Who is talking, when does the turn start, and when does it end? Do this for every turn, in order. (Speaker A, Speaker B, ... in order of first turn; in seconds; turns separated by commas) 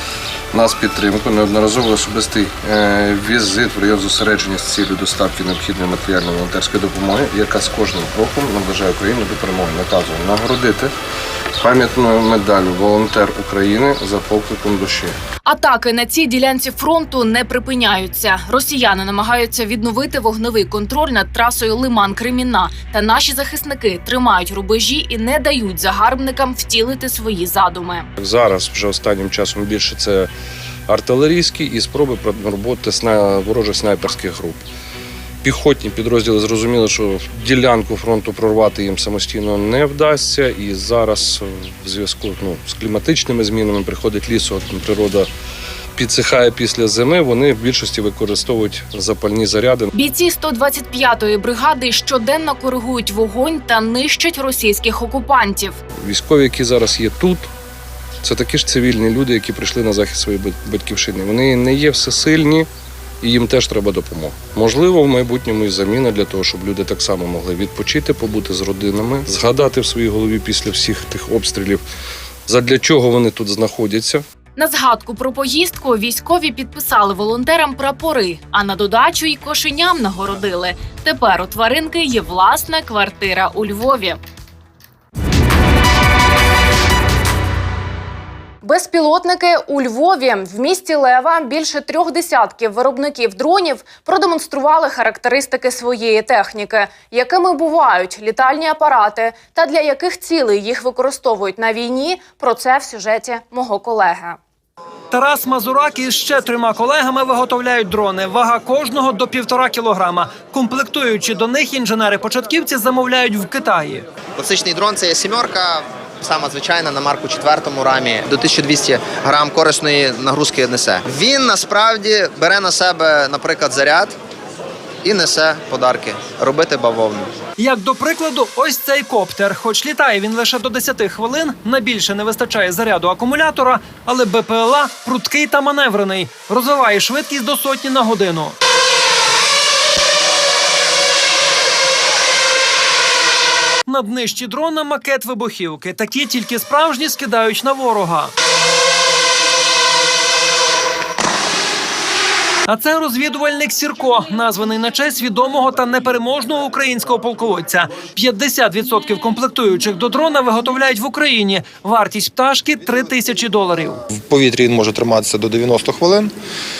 Speaker A: 0.5-10.9, Speaker A: 11.6-15.2, Speaker B: 15.4-28.1, Speaker A: 28.2-30.3, Speaker A: 30.9-34.6, Speaker A: 35.4-45.3, Speaker A: 46.0-49.9, Speaker B: 49.9-55.8, Speaker A: 56.0-57.5, Speaker A: 58.2-62.7, Speaker A: 63.2-71.8, Speaker A: 72.5-74.2, Speaker B: 74.6-84.2, Speaker B: 88.6-104.4, Speaker C: 105.1-114.1, Speaker D: 114.4-124.2, Speaker D: 125.0-127.3, Speaker C: 127.6-138.6, Speaker C: 143.9-148.3, Speaker C: 152.7-164.0, Speaker E: 164.3-166.3